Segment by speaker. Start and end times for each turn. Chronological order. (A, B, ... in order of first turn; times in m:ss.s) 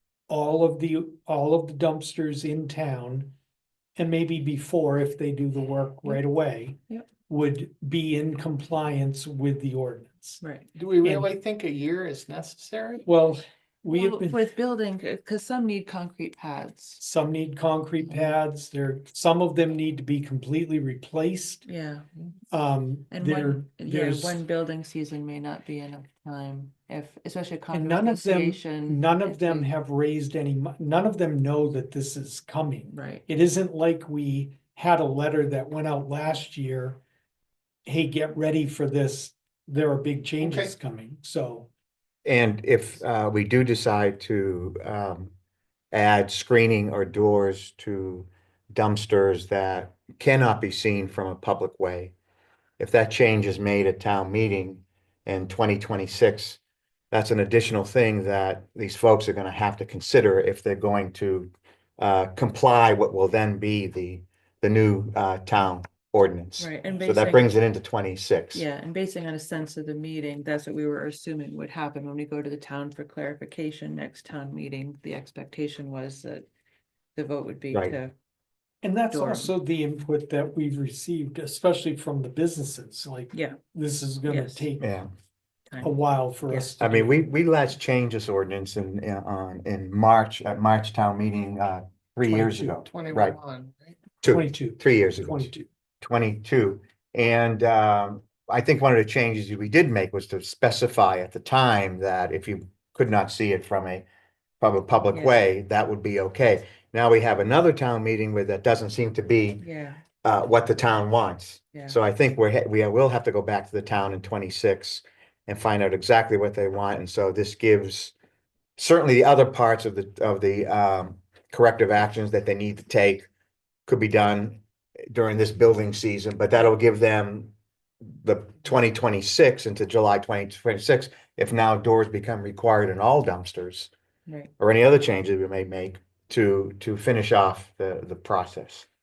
0:00.3-0:03.4 A
0:04.0-0:10.4 A
0:10.4-0:10.7 B
0:10.8-0:13.1 C
0:11.0-0:11.3 A
0:13.1-0:14.5 A
0:13.9-0:17.0 B
0:17.0-0:21.6 A
0:21.6-0:22.3 B
0:22.5-0:24.4 A
0:23.1-0:29.7 B
0:27.7-0:37.0 A
0:32.9-0:33.2 B
0:37.8-0:41.7 A
0:40.4-0:40.7 C
0:42.2-0:45.3 D
0:45.9-0:52.1 D
0:52.8-0:56.6 D
0:57.1-1:08.6 D
1:06.6-1:07.5 B
1:08.5-1:16.5 B
1:17.2-1:18.1 B
1:18.8-1:24.9 A
1:19.1-1:19.5 B
1:23.3-1:23.6 B
1:24.3-1:24.7 B
1:24.8-1:25.1 D
1:25.7-1:26.0 B
1:25.8-1:27.2 A
1:26.8-1:33.4 D
1:32.3-1:32.7 A
1:32.8-1:34.0 C
1:34.2-1:44.0 D
1:34.2-1:35.7 A
1:44.6-1:49.6 D
1:49.6-1:50.0 B
1:50.2-1:58.1 D
1:58.8-2:03.3 D
2:03.9-2:07.5 D
2:08.0-2:13.9 D
2:14.3-2:14.5 B
2:14.6-2:18.9 D